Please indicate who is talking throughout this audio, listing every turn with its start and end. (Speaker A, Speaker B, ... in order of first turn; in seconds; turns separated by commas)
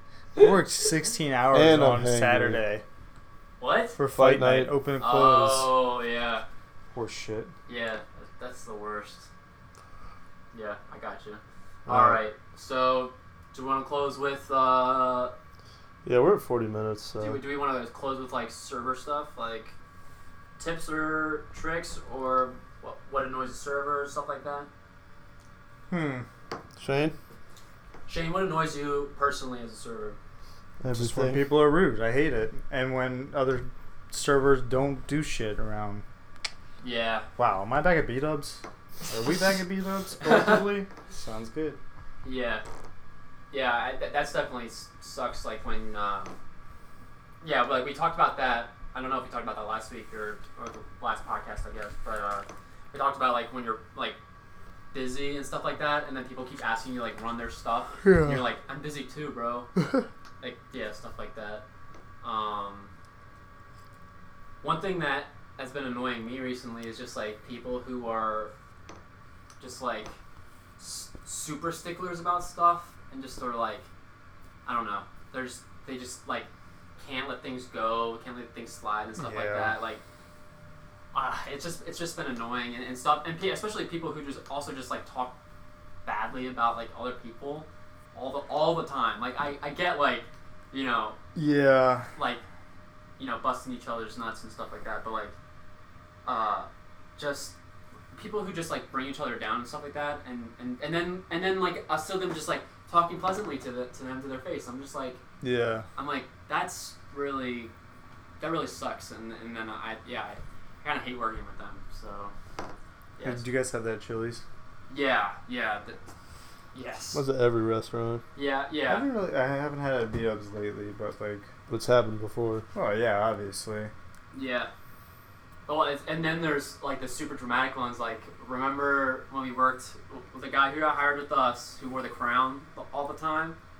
Speaker A: 0.4-2.8, Speaker B: 1.5-2.6, Speaker C: 3.6-4.0, Speaker A: 4.0-5.7, Speaker B: 4.1-4.8, Speaker C: 5.0-6.4, Speaker A: 6.9-7.5, Speaker C: 7.7-9.3, Speaker C: 10.5-15.3, Speaker B: 11.8-12.2, Speaker B: 16.0-17.4, Speaker C: 17.2-19.7, Speaker C: 20.6-24.7, Speaker A: 25.9-26.2, Speaker B: 26.8-27.1, Speaker C: 28.1-30.2, Speaker B: 30.8-31.5, Speaker A: 30.9-36.0, Speaker C: 36.8-37.2, Speaker A: 37.4-41.8, Speaker C: 40.2-40.7, Speaker C: 42.2-42.6, Speaker C: 43.5-46.3, Speaker C: 47.4-54.2, Speaker C: 54.9-59.7, Speaker A: 58.0-58.4, Speaker C: 60.4-61.6, Speaker C: 62.2-62.9, Speaker C: 64.6-68.5, Speaker C: 69.6-70.2, Speaker C: 70.8-73.9, Speaker C: 74.6-80.0, Speaker A: 79.2-79.7, Speaker C: 81.1-85.3, Speaker C: 86.0-91.2, Speaker A: 91.3-92.1, Speaker C: 92.1-92.4, Speaker C: 93.2-95.3, Speaker C: 96.2-97.5, Speaker C: 98.1-105.2, Speaker A: 105.4-105.8, Speaker C: 106.0-107.7, Speaker C: 108.4-112.3, Speaker C: 113.2-113.4, Speaker A: 113.2-114.4, Speaker C: 114.9-116.0, Speaker C: 116.7-117.2, Speaker B: 117.1-118.2, Speaker C: 118.3-119.0, Speaker A: 118.9-121.5, Speaker B: 121.7-122.6, Speaker A: 122.7-123.9, Speaker C: 124.3-124.7, Speaker C: 125.7-133.6